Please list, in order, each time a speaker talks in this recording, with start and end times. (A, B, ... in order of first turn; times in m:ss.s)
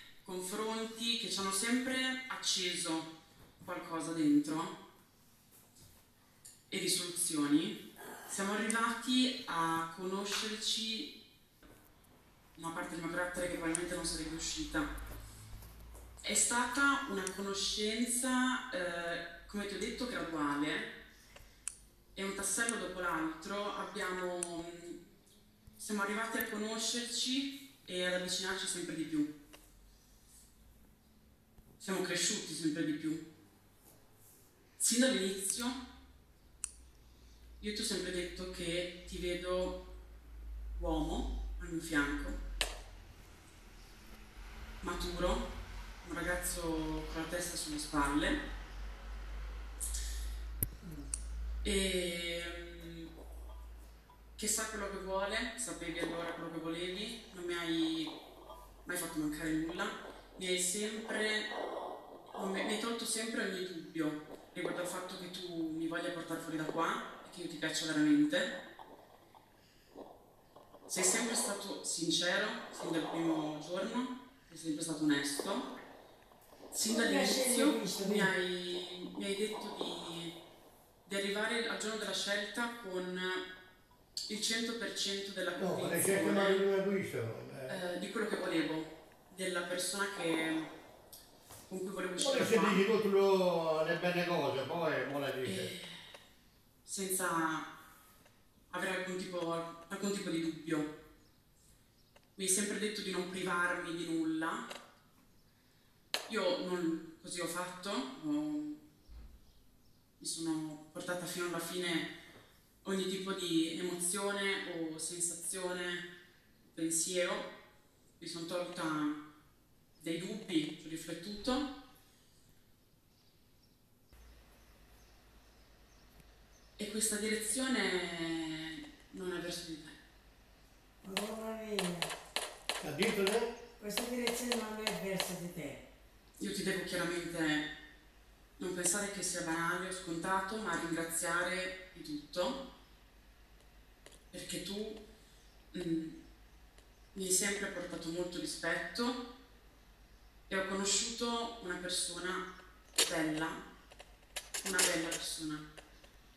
0:00.2-0:04.8 A
0:06.7-0:11.1 A
0:12.5-0:14.9 A
0:16.2-0:20.9 A
0:22.1-0:25.0 A
0:25.8-0:29.3 A
0:31.8-0:33.2 A
0:34.8-0:35.8 A
0:37.6-0:39.8 A
0:40.7-0:42.4 A
0:44.8-0:45.5 A
0:46.0-0:48.4 A
0:51.6-0:53.1 A
0:54.4-0:58.2 A
0:58.8-1:01.5 A
1:02.3-1:08.5 A
1:10.8-1:15.7 A
1:16.7-1:20.4 A
1:16.8-1:18.3 B
1:21.0-1:23.4 A
1:24.3-1:26.6 A
1:25.6-1:27.8 C
1:27.7-1:30.7 A
1:31.7-1:32.8 A
1:32.2-1:35.7 C
1:35.4-1:36.0 A
1:36.8-1:37.7 A
1:38.7-1:40.9 A
1:42.3-1:44.7 A
1:46.3-1:48.8 A
1:50.2-1:52.1 A
1:52.8-1:56.0 A
1:56.6-1:57.5 A
1:58.2-1:59.2 A
2:00.0-2:01.7 A
2:06.8-2:10.0 A
2:11.0-2:12.1 B
2:12.8-2:13.5 C
2:13.8-2:15.8 B
2:16.4-2:17.7 A
2:18.6-2:22.6 A
2:24.3-2:25.0 A
2:25.7-2:26.2 A
2:27.1-2:29.2 A
2:30.5-2:32.5 A
2:33.0-2:33.6 A
2:34.6-2:35.7 A